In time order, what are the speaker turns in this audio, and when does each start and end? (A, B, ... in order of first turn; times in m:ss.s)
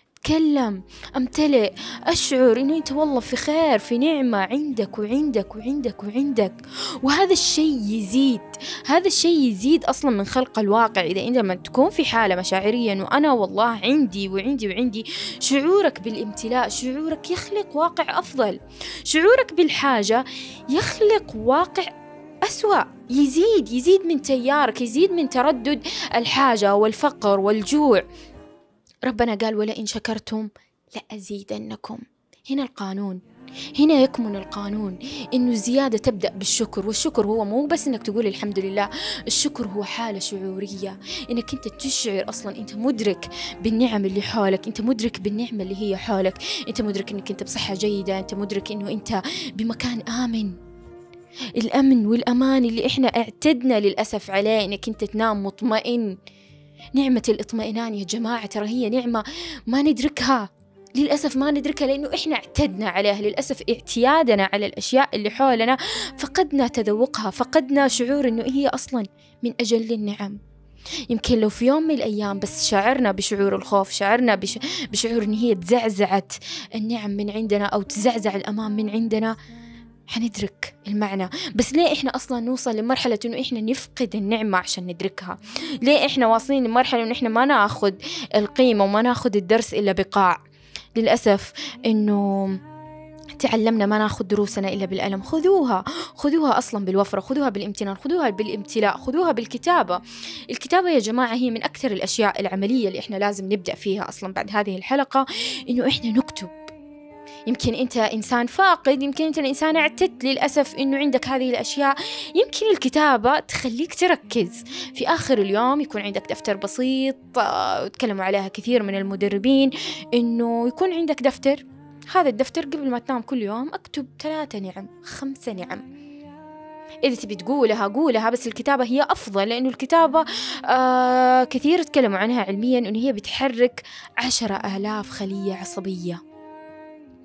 0:00.2-0:21.9 A
0:22.4-0:28.0 A
0:29.0-0:33.2 A
0:33.8-0:50.5 A
0:51.6-0:56.2 A
0:56.9-1:10.4 A
1:11.1-1:19.4 A
1:20.1-1:30.4 A
1:31.0-1:32.6 A
1:33.4-1:46.7 A
1:47.5-2:05.8 A
2:07.0-2:16.2 A